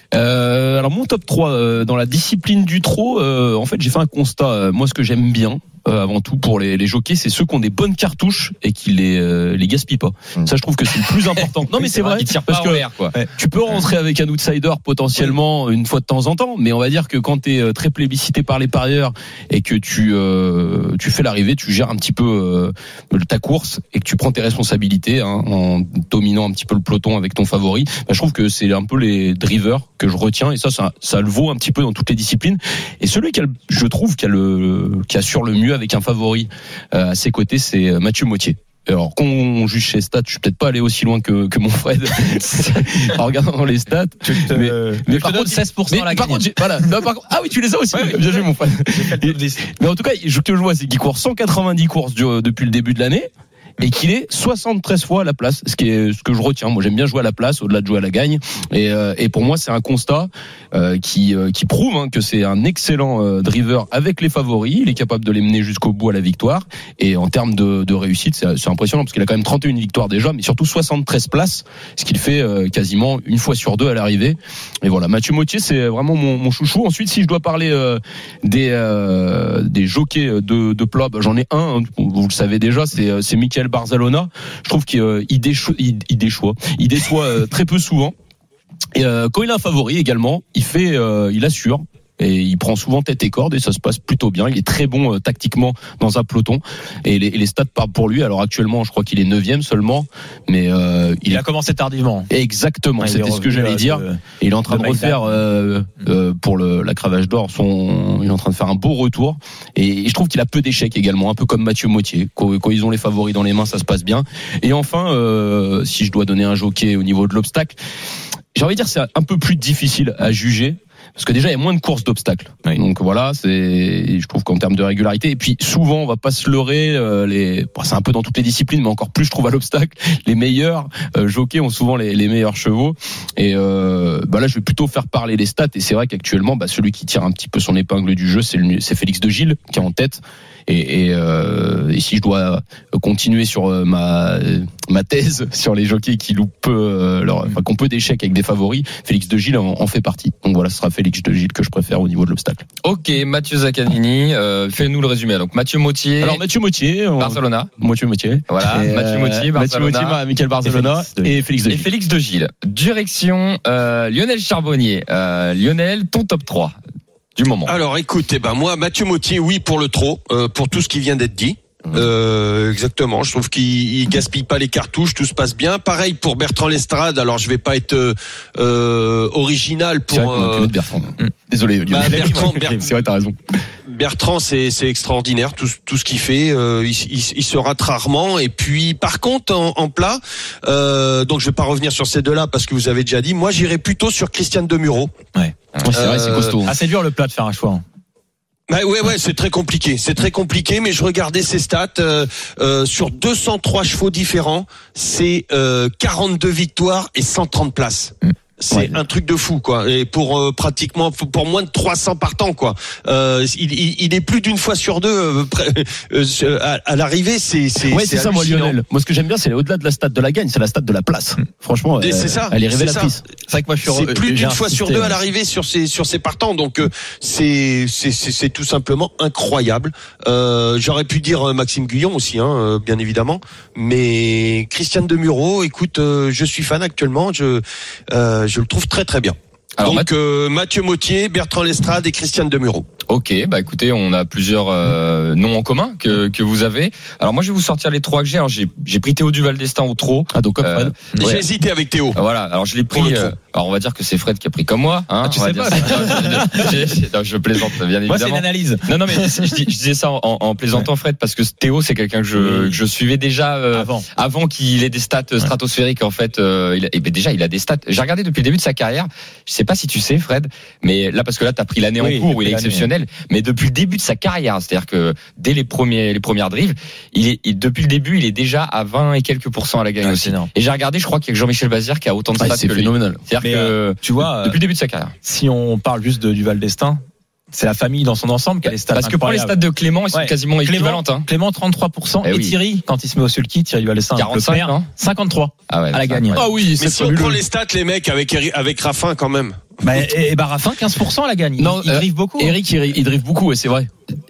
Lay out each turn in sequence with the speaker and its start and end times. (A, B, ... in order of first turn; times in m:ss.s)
0:00.1-1:28.1 A
0:11.7-0:13.1 B
0:44.2-0:46.6 C
0:47.9-0:49.6 C
1:28.9-1:41.4 A
1:41.3-1:42.3 C
1:42.3-1:57.8 A
1:43.0-1:45.3 C
1:58.5-2:32.6 A
2:32.8-2:36.4 B
2:36.2-2:41.9 A
2:37.2-2:37.7 B
2:38.5-2:40.2 B
2:40.6-2:41.4 C
2:41.7-2:46.8 B
2:47.4-2:47.7 B
2:47.6-3:00.7 D
3:00.1-3:03.6 A
3:01.9-3:02.8 D
3:02.0-3:02.8 C
3:03.8-3:15.1 D
3:15.8-3:16.7 A
3:15.9-3:16.5 D
3:16.6-3:17.8 C
3:18.7-3:38.8 D
3:37.9-3:43.2 A
3:42.0-3:43.2 D
3:43.5-3:45.2 C
3:43.8-4:02.9 D
3:59.8-4:00.1 B
4:03.1-4:11.4 B
4:10.3-4:11.1 A
4:11.2-4:12.2 D
4:12.1-4:45.1 B
4:12.9-4:13.3 D
4:15.2-4:16.8 C
4:18.1-4:19.5 C
4:22.4-4:22.8 C
4:23.7-4:24.0 C
4:32.0-4:32.9 C
4:40.0-4:40.5 C
4:42.4-4:43.2 A
4:43.4-4:44.6 C
4:45.2-4:49.6 C
4:48.6-4:51.3 B
4:50.1-4:56.4 C
4:52.2-4:52.6 B
4:54.1-4:54.9 B
4:55.7-4:56.4 B
4:56.3-4:57.4 A
4:56.8-4:59.7 D
4:59.8-5:02.6 C
5:01.6-5:03.9 A